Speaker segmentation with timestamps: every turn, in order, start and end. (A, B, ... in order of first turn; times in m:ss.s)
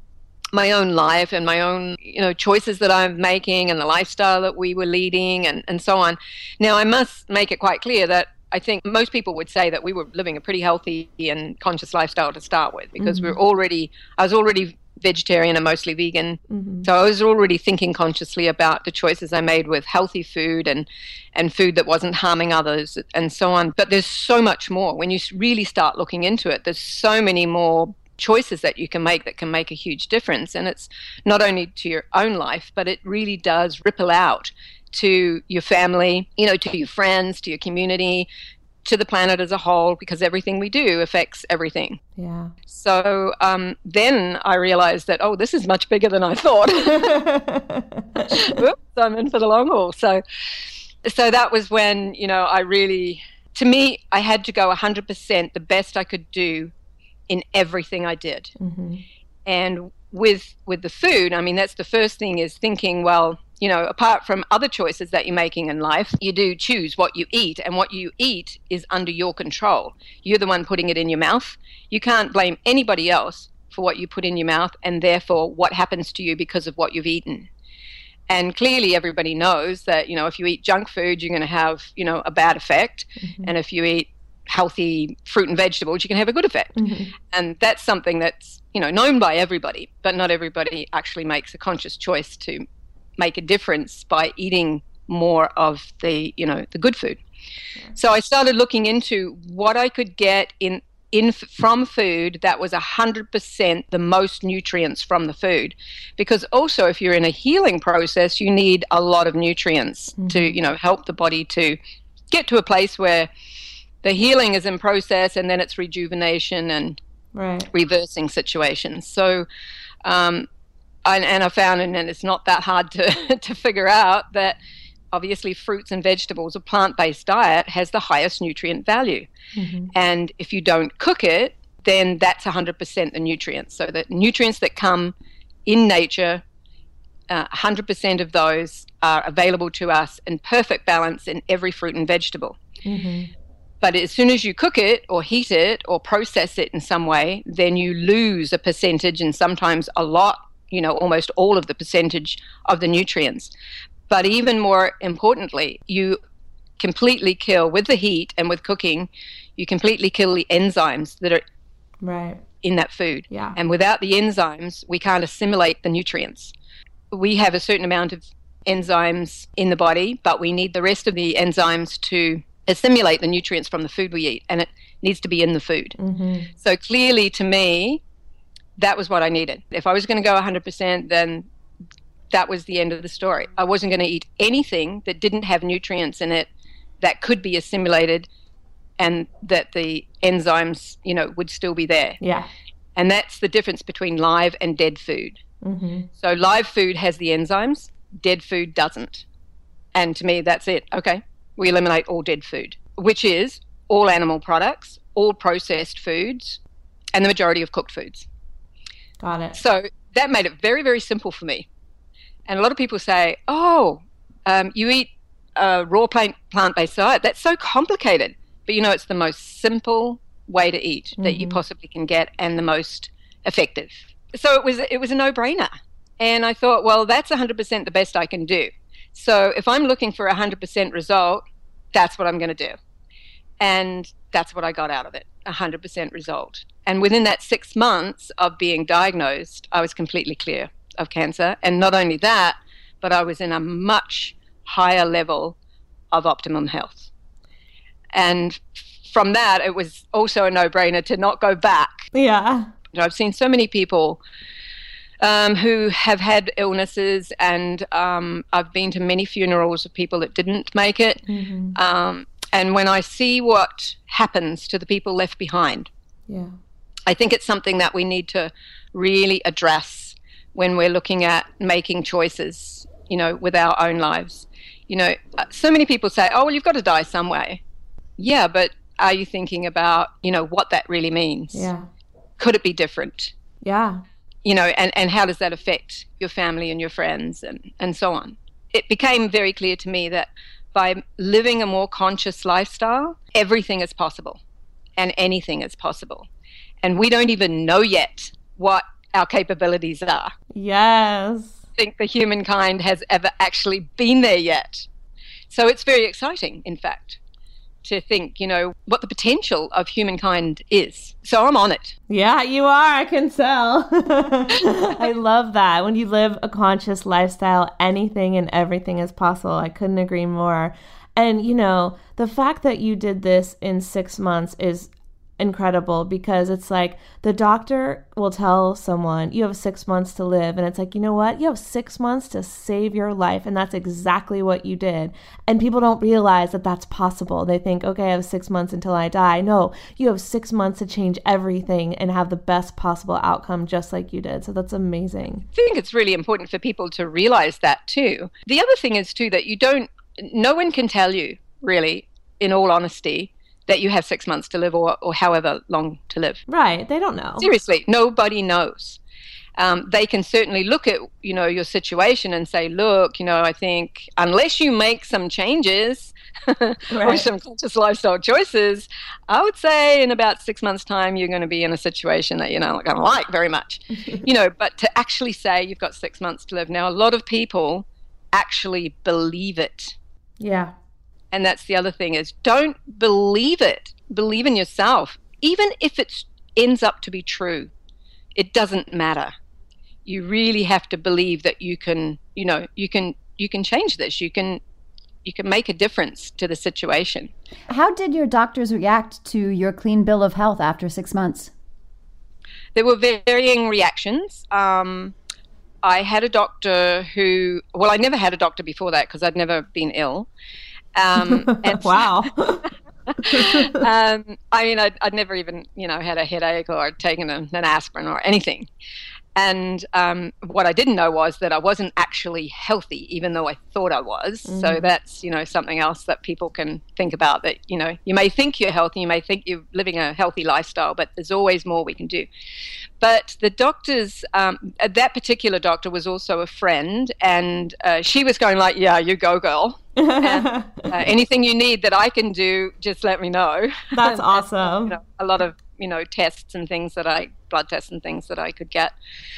0:00.5-0:38.3 A
0:13.0-0:13.4 B
0:16.5-0:16.9 B
0:38.8-0:42.0 A
0:42.2-0:42.5 B
0:42.7-0:47.2 A
0:46.9-0:48.6 B
0:48.3-0:50.2 A
0:51.0-0:56.7 A
0:57.3-0:58.5 A
0:58.6-0:59.0 B
0:59.5-1:17.5 A
1:18.3-1:26.8 A
1:23.2-1:23.5 B
1:26.8-1:27.1 B
1:27.3-1:32.6 A
1:33.2-1:37.2 A
1:38.0-1:51.8 A
1:50.2-1:50.6 B
1:52.3-1:53.3 A
1:54.0-1:57.0 A
1:57.3-1:57.7 B
1:57.7-1:59.5 A
2:00.0-2:00.5 A
2:01.0-2:04.6 A
2:05.1-2:09.3 A
2:09.6-2:09.9 B
2:09.9-2:15.2 A
2:15.7-2:16.4 A
2:17.3-2:22.6 A
2:22.8-2:23.3 B
2:23.8-2:33.5 A
2:34.1-2:36.2 A
2:36.8-2:41.4 A
2:42.0-2:42.4 B
2:42.6-2:46.5 A
2:43.3-2:43.6 B
2:47.1-2:56.0 A
2:56.0-2:56.5 B
2:56.6-2:58.0 A
2:58.8-3:01.5 A
3:02.3-3:06.5 A
3:07.0-3:08.3 A
3:09.0-3:12.2 A
3:12.2-3:12.5 B
3:13.0-3:15.4 A
3:15.6-3:16.1 B
3:16.2-3:19.2 A
3:19.9-3:26.6 A
3:27.1-3:28.3 A
3:29.2-3:29.6 B
3:29.5-3:31.7 A
3:32.5-3:52.8 A
3:41.2-3:41.6 B
3:53.6-4:05.6 A
4:06.1-4:07.1 A
4:08.1-4:12.1 A
4:12.1-4:12.7 B
4:12.9-4:14.2 A
4:15.2-4:21.2 A
4:21.3-4:21.8 B
4:21.8-4:25.9 A
4:26.3-4:26.6 B
4:27.1-4:37.6 A
4:38.2-4:41.7 A
4:41.5-4:41.9 B
4:42.4-4:43.3 A
4:43.6-4:44.0 B
4:44.4-4:54.4 A
4:55.0-4:56.3 A
4:56.8-5:00.3 A
5:00.5-5:01.6 B
5:01.8-5:04.9 A
5:05.5-5:07.2 A
5:07.8-5:12.0 A
5:12.1-5:45.5 B
5:45.6-5:56.4 A
5:56.5-5:57.5 B
5:57.4-5:59.0 A
5:59.6-6:20.0 A
6:06.9-6:07.2 B
6:20.4-6:20.7 B
6:21.3-6:27.7 A
6:28.4-6:29.3 A
6:30.1-6:34.6 A
6:35.2-6:37.3 A
6:37.7-6:41.5 C
6:42.8-6:45.2 A
6:45.8-6:50.3 A
6:51.0-6:52.3 A
6:51.3-6:52.7 B
6:53.2-6:58.7 A
6:53.3-6:53.8 B
6:59.4-7:12.3 A
7:04.5-7:04.9 B
7:13.0-7:29.0 A
7:20.0-7:20.9 B
7:23.9-7:25.0 B